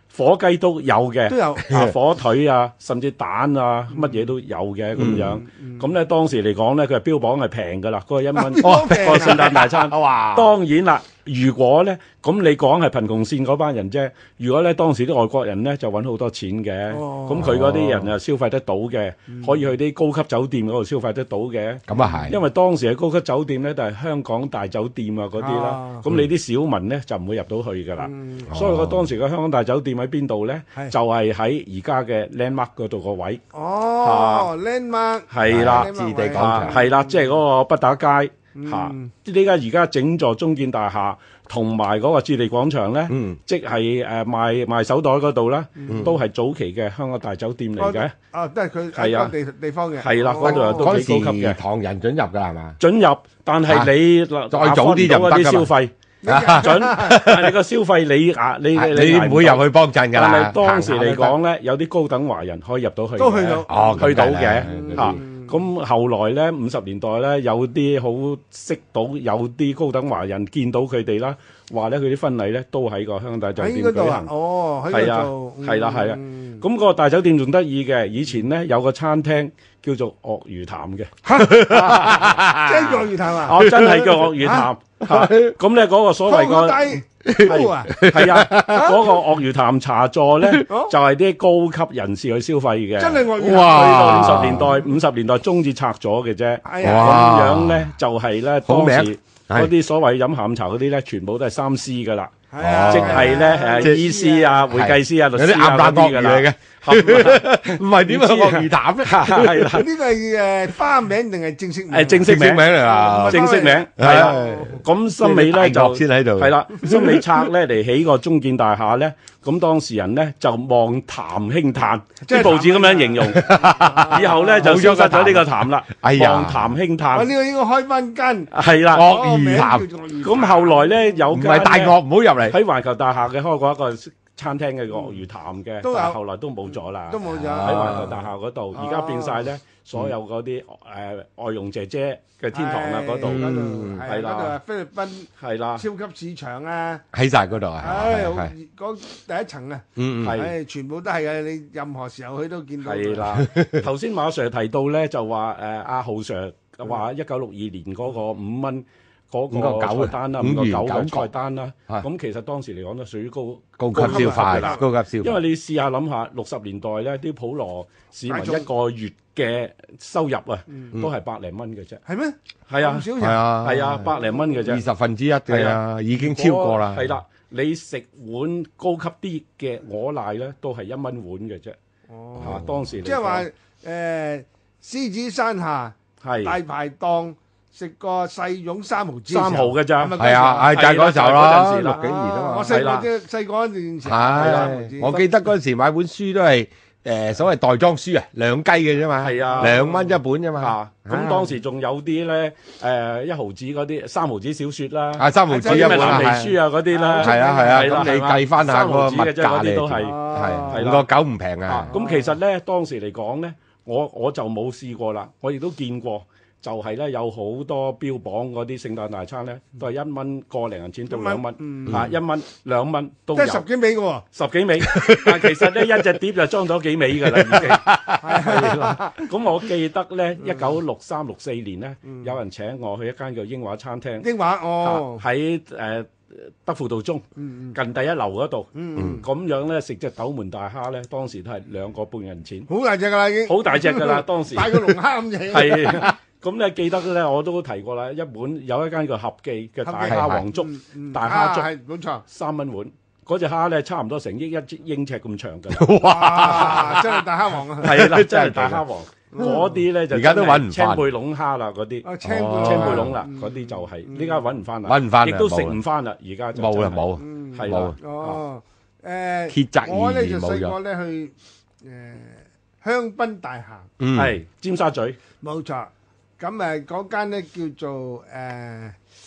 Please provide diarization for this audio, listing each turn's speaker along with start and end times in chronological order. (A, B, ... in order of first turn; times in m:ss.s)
0:00.1-0:33.4 A
0:01.3-0:01.7 B
0:03.9-0:04.3 B
0:05.0-0:05.4 C
0:05.2-0:05.9 B
0:08.3-0:09.6 B
0:08.6-0:10.5 C
0:16.9-0:17.5 B
0:17.4-0:18.1 C
0:19.3-0:19.7 B
0:21.9-0:22.4 C
0:21.9-0:22.3 B
0:25.4-0:26.1 B
0:28.0-0:28.5 B
0:28.5-0:29.1 C
0:33.5-0:37.4 B
0:34.0-0:34.5 A
0:35.3-0:48.1 A
0:35.5-0:36.8 C
0:38.6-0:39.1 B
0:43.1-0:43.4 C
0:45.8-0:46.2 B
0:45.9-0:46.1 C
0:47.8-0:51.0 B
0:48.9-0:49.3 A
0:50.0-0:51.6 A
0:50.4-0:52.8 C
0:52.8-0:55.9 A
0:53.7-0:53.9 C
0:54.5-0:55.7 C
0:56.2-0:57.3 B
0:56.3-0:57.6 C
0:56.5-1:14.3 A
0:58.7-1:01.4 C
1:03.2-1:05.6 B
1:03.7-1:05.2 C
1:13.6-1:16.6 B
1:14.9-1:21.1 A
1:21.2-1:24.7 B
1:21.5-1:24.2 C
1:21.6-1:22.4 A
1:23.4-1:49.9 A
1:25.0-1:25.6 C
1:26.2-1:28.0 B
1:27.3-1:28.8 C
1:28.6-1:29.1 B
1:30.6-1:30.9 B
1:33.0-1:34.7 B
1:33.4-1:34.8 C
1:36.6-1:37.3 B
1:36.8-1:37.9 C
1:38.7-1:39.7 C
1:42.5-1:44.7 B
1:42.6-1:44.1 C
1:44.7-1:49.9 C
1:49.7-1:54.8 B
1:51.9-2:03.5 A
1:52.2-1:57.4 C
2:02.2-2:04.7 B
2:03.2-2:06.7 C
2:04.0-2:07.3 A
2:07.1-2:11.2 B
2:08.5-2:23.5 A
2:08.9-2:09.9 C
2:11.3-2:12.6 C
2:14.9-2:15.2 B
2:15.8-2:19.5 B
2:17.2-2:18.2 C
2:22.5-2:27.0 B
2:23.2-2:24.0 C
2:24.0-2:24.6 A
2:25.4-2:25.8 A
2:27.1-2:28.5 C
2:27.8-2:33.3 B
2:30.0-2:30.4 C
2:30.2-2:30.6 A
2:32.8-2:52.0 A
2:33.3-2:33.8 C
2:39.5-2:41.3 C
2:43.8-2:45.4 C
2:44.0-2:44.8 B
2:48.3-2:48.7 B
2:50.7-2:51.0 B
2:52.1-2:54.7 B
2:52.7-2:53.1 A
2:53.2-2:57.2 C
2:53.6-2:54.8 A
2:55.5-3:01.8 A
3:02.1-3:10.8 B
3:02.4-3:02.8 C
3:02.4-3:03.5 A
3:06.2-3:06.6 A
3:09.3-3:10.2 A
3:10.2-3:12.9 C
3:10.7-3:12.0 A
3:11.9-3:15.4 B
3:12.7-3:13.1 A
3:14.0-3:21.3 C
3:14.4-3:14.7 A
3:19.2-3:19.9 A
3:19.5-3:20.2 B
3:20.6-3:31.1 A
3:21.1-3:21.5 B
3:25.2-3:26.6 C
3:25.5-3:28.0 B
3:27.2-3:31.9 C
3:30.0-3:30.9 B
3:31.7-3:43.7 A
3:31.9-3:32.4 B
3:41.1-3:42.1 B
3:41.9-3:42.2 C
3:43.4-3:44.2 B
3:44.3-3:54.3 A
3:44.8-3:46.1 C
3:47.2-3:48.9 C
3:48.2-3:49.3 B
3:50.4-3:50.8 B
3:52.1-3:52.4 B
3:54.2-3:55.2 B
3:54.8-4:02.7 A
3:57.4-3:57.8 B
3:58.7-3:59.3 B
4:02.7-4:06.2 B
4:03.4-4:05.0 A
4:05.5-4:11.7 A
4:09.8-4:12.2 B
4:10.1-4:10.4 C
4:12.3-4:17.0 A
4:15.7-4:17.2 C
4:16.0-4:18.0 B
4:17.8-4:28.4 A
4:17.8-4:18.8 C
4:19.3-4:19.8 B
4:20.1-4:21.1 C
4:22.0-4:24.5 B
4:22.2-4:23.2 C
4:24.8-4:25.8 C
4:26.6-4:28.0 C
4:27.2-4:33.9 B
4:29.5-4:30.8 C
4:34.0-4:34.4 C
4:34.1-4:35.2 A
4:35.4-4:39.0 B